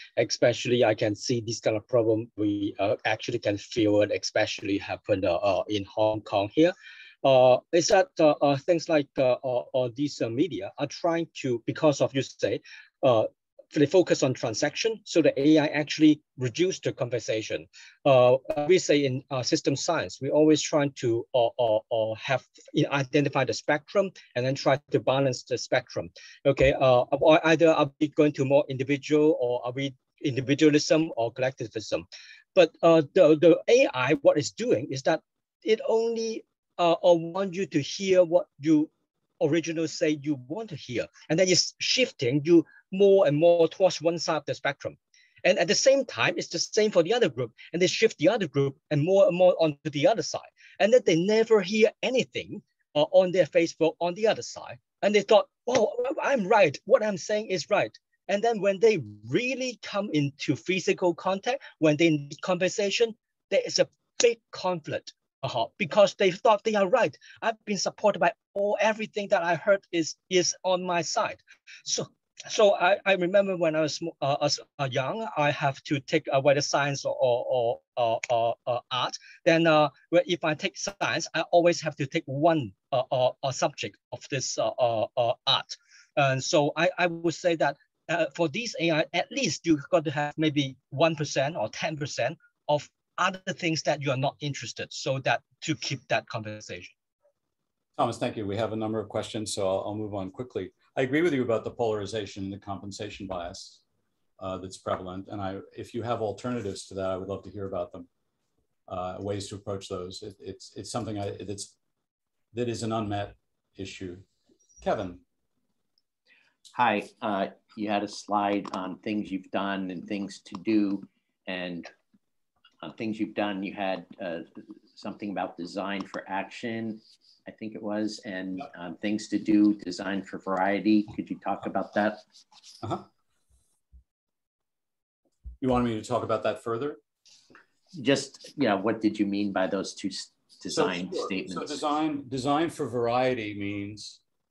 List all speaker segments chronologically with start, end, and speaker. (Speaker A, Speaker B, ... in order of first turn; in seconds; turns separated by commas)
Speaker A: 0.2-97.0, Speaker B: 98.0-103.8, Speaker B: 104.4-108.1, Speaker B: 108.9-111.8, Speaker B: 112.5-114.2, Speaker B: 114.8-115.2, Speaker C: 116.7-121.9, Speaker C: 122.8-132.2, Speaker B: 135.6-137.0, Speaker C: 137.9-141.8, Speaker B: 140.7-144.2